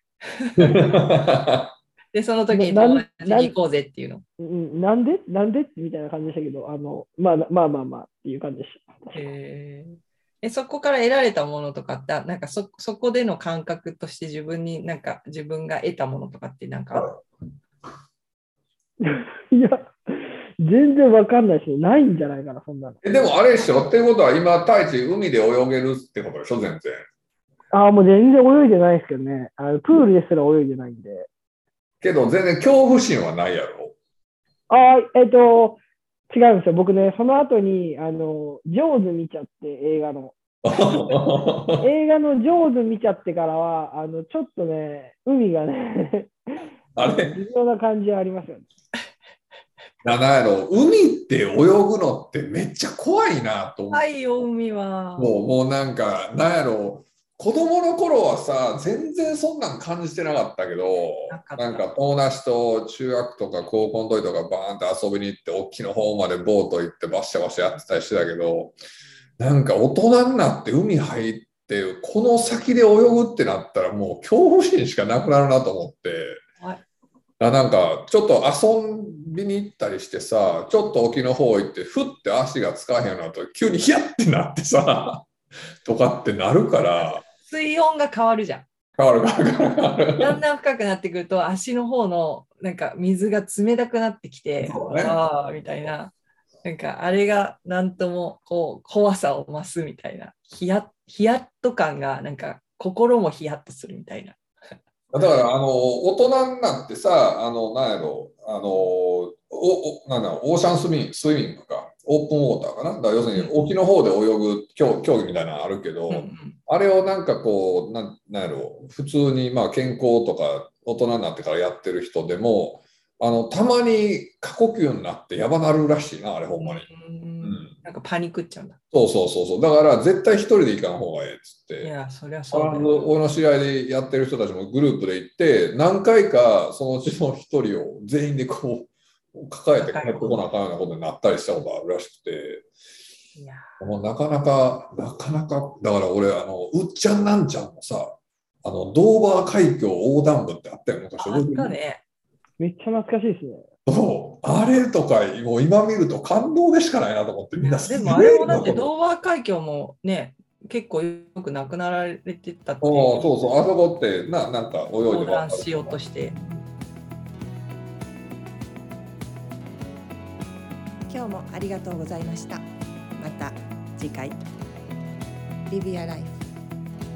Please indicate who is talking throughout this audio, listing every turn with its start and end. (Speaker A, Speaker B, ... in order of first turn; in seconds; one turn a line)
Speaker A: 0.4-0.9
Speaker B: 0.6-1.7
Speaker A: 2.1-4.2
Speaker C: 2.5-3.5
Speaker C: 4.4-9.2
Speaker A: 9.1-17.1
Speaker C: 19.0-23.1
Speaker B: 23.0-27.0
Speaker C: 27.7-31.3
Speaker B: 32.0-33.9
Speaker C: 34.7-40.4
Speaker B: 40.6-41.9
Speaker C: 41.8-46.3
Speaker B: 47.0-47.4
Speaker C: 47.0-48.6
Speaker B: 50.0-54.0
Speaker A: 53.9-55.3
Speaker B: 55.2-68.8
Speaker A: 61.3-61.9
Speaker B: 69.4-76.4
Speaker B: 77.4-85.3
Speaker B: 85.8-87.2
Speaker A: 87.0-88.7
Speaker B: 89.0-90.4
Speaker A: 90.2-104.4
Speaker B: 94.6-95.2
Speaker B: 105.1-126.9
Speaker A: 113.3-113.6
Speaker A: 116.1-116.6
Speaker A: 126.6-128.8
Speaker B: 127.4-127.7
Speaker B: 128.9-131.9
Speaker A: 131.8-133.1
Speaker B: 132.5-142.7
Speaker A: 139.7-140.4
Speaker A: 143.4-143.8
Speaker B: 143.8-151.7
Speaker A: 151.2-152.0
Speaker C: 152.6-153.6
Speaker B: 153.9-158.9
Speaker A: 157.6-163.4
Speaker B: 162.8-166.6
Speaker A: 165.1-166.3
Speaker D: 171.1-172.6
Speaker D: 173.2-174.4
Speaker D: 175.7-176.4